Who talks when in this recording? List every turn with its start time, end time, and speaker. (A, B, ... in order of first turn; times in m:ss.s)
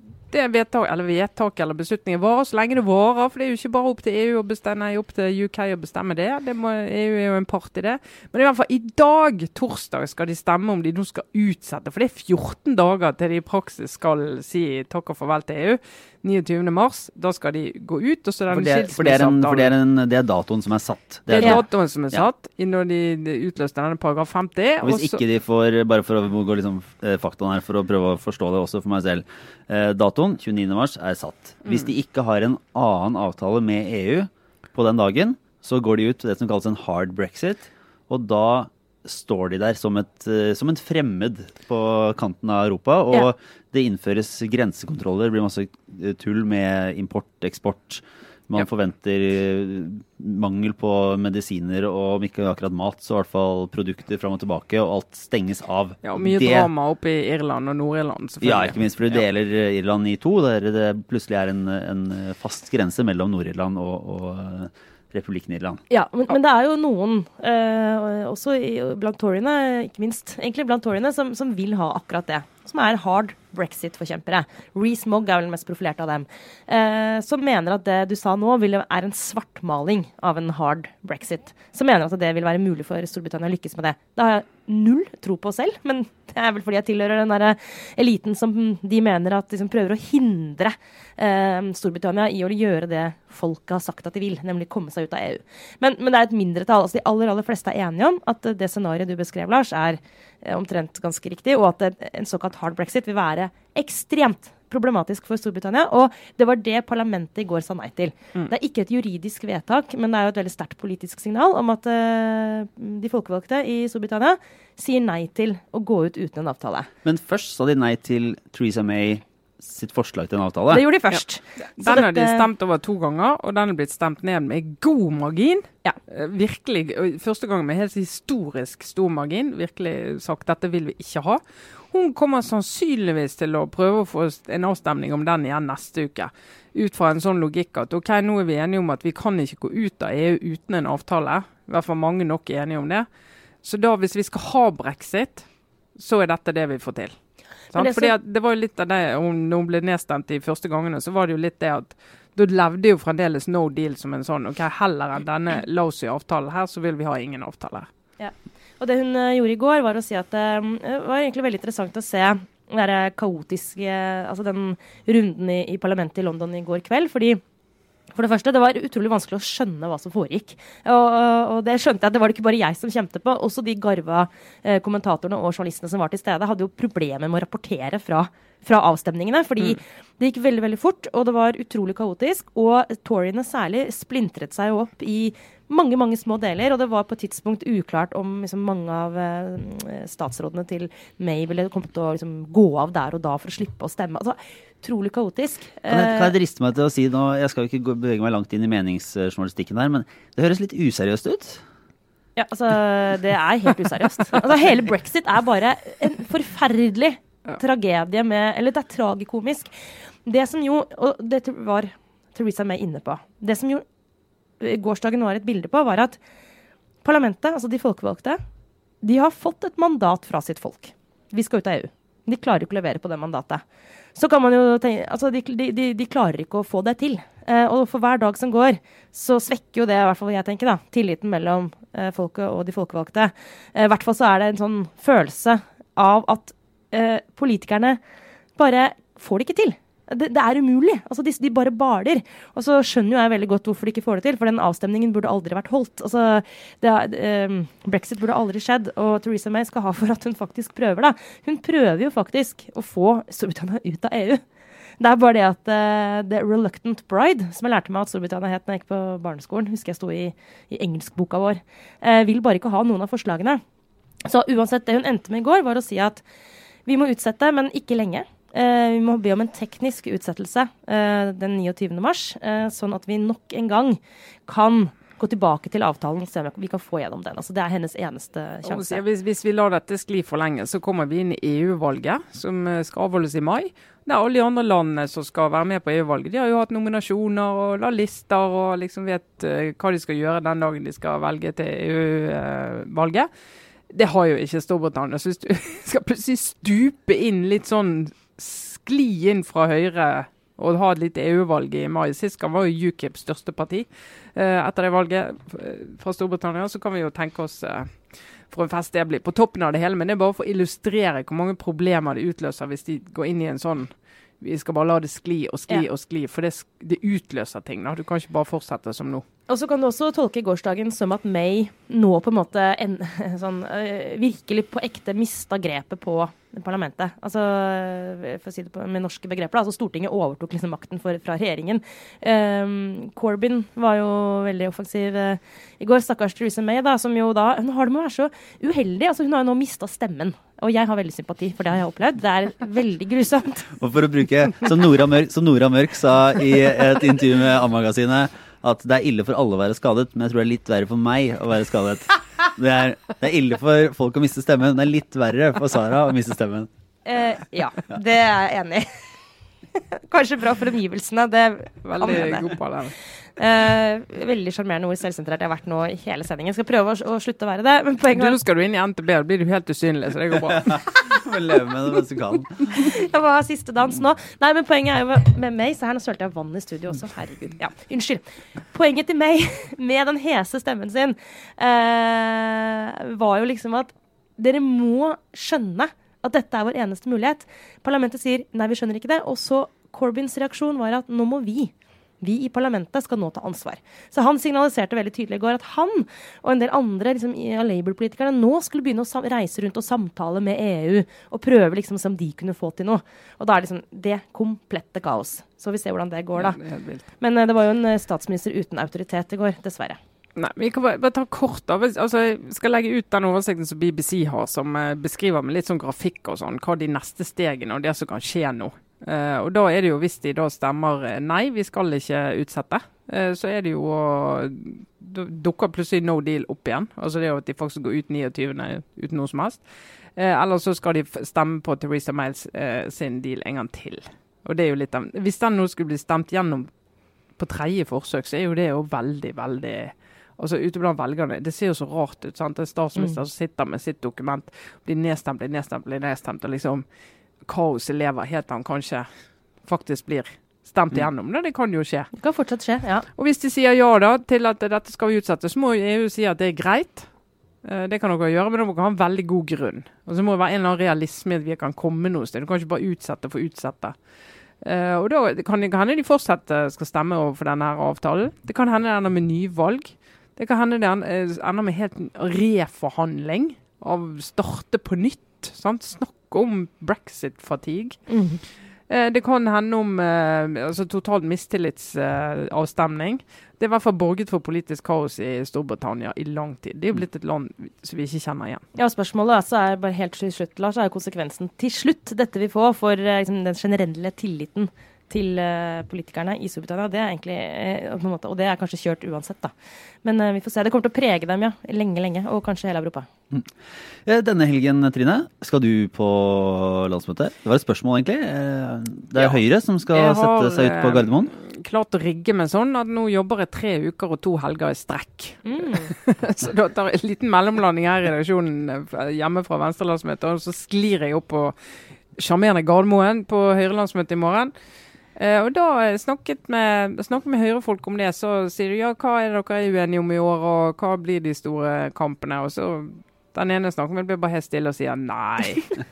0:00.3-0:19.7 A
0:18.5-0:22.2 B
0:21.3-0:25.2 A
0:24.8-0:56.7 B
0:56.0-0:59.2 A
0:58.4-1:05.8 B
1:05.9-1:56.9 C
1:57.0-2:00.8 B
2:00.7-2:02.5 C
2:01.8-2:23.0 A
2:23.6-2:27.1 A
2:27.7-2:37.9 A
2:27.7-2:28.1 C
2:38.2-2:47.4 C
2:48.1-3:16.3 C
3:15.9-3:21.6 B
3:22.4-3:29.7 C
3:30.2-3:33.8 C
3:34.6-3:36.2 C
3:37.0-3:38.4 C
3:39.0-3:43.6 C
3:44.1-3:58.0 C
3:58.6-4:14.4 C
4:15.0-4:23.6 C
4:24.2-4:26.2 C
4:26.8-4:39.0 C
4:38.6-4:53.3 A
4:53.9-5:19.2 A
5:19.5-5:43.7 C
5:43.7-5:56.7 B
5:57.0-5:59.0 C
5:59.7-6:02.5 C
6:01.8-6:03.0 A
6:03.4-6:08.4 C
6:08.1-6:10.8 A
6:10.5-6:12.9 B
6:12.7-6:46.6 C
6:46.4-6:47.0 A
6:47.2-6:50.0 C
6:50.4-7:09.6 A
7:10.2-7:16.7 A
7:17.4-7:26.8 A
7:27.5-7:29.1 A
7:29.6-7:32.1 A
7:32.2-7:33.1 C
7:33.2-7:37.1 A
7:37.6-7:44.0 A
7:44.6-7:58.1 A
7:58.1-7:58.4 C
7:58.9-8:08.6 A
8:08.7-8:23.1 C
8:24.0-8:31.3 B
8:29.2-8:41.5 A
8:35.4-8:35.9 C
8:42.2-8:44.5 A
8:45.2-8:55.8 A